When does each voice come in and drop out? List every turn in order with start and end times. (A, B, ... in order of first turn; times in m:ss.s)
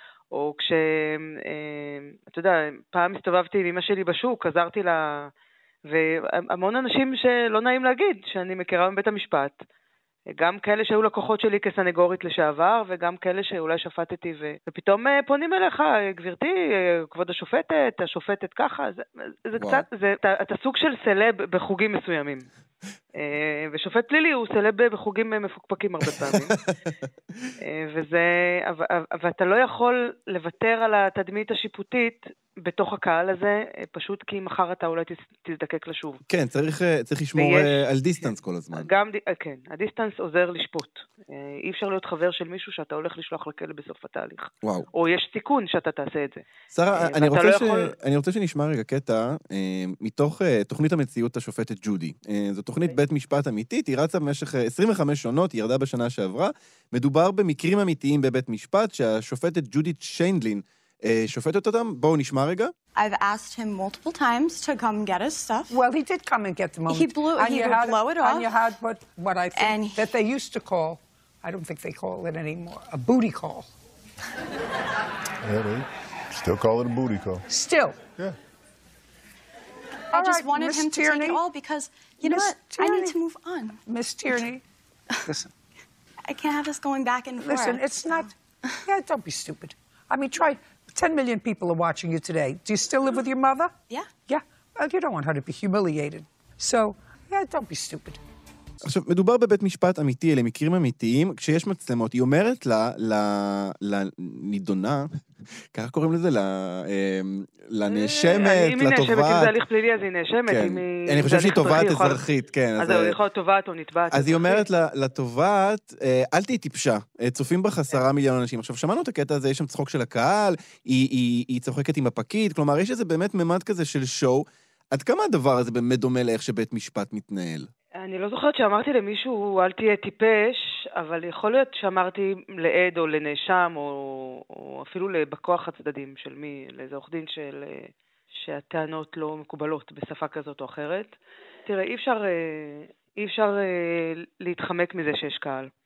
0:00.3-0:05.3 A
0:05.9-0:09.6 A
0:10.3-0:22.5 A
0:19.6-0:19.8 B
0:23.2-0:26.6 A
0:26.1-0:27.0 B
0:27.6-0:36.2 A
0:36.3-0:38.9 B
0:37.3-0:47.9 A
0:46.7-1:02.7 B
1:03.0-1:05.8 C
1:05.7-1:13.7 D
1:06.9-1:08.6 C
1:09.5-1:10.1 C
1:15.4-1:17.4 E
1:17.5-1:18.0 D
1:20.1-1:21.4 D
1:20.1-1:23.8 C
1:22.2-1:23.2 D
1:23.8-1:24.6 D
1:26.3-1:28.3 C
1:27.4-1:28.3 D
1:28.8-1:33.7 D
1:34.3-1:38.2 D
1:38.8-1:49.5 B
1:47.9-1:52.2 A
1:50.5-1:53.2 B
1:52.8-1:54.7 A
1:54.1-2:07.7 B
2:08.0-2:21.2 A
2:21.7-2:25.7 A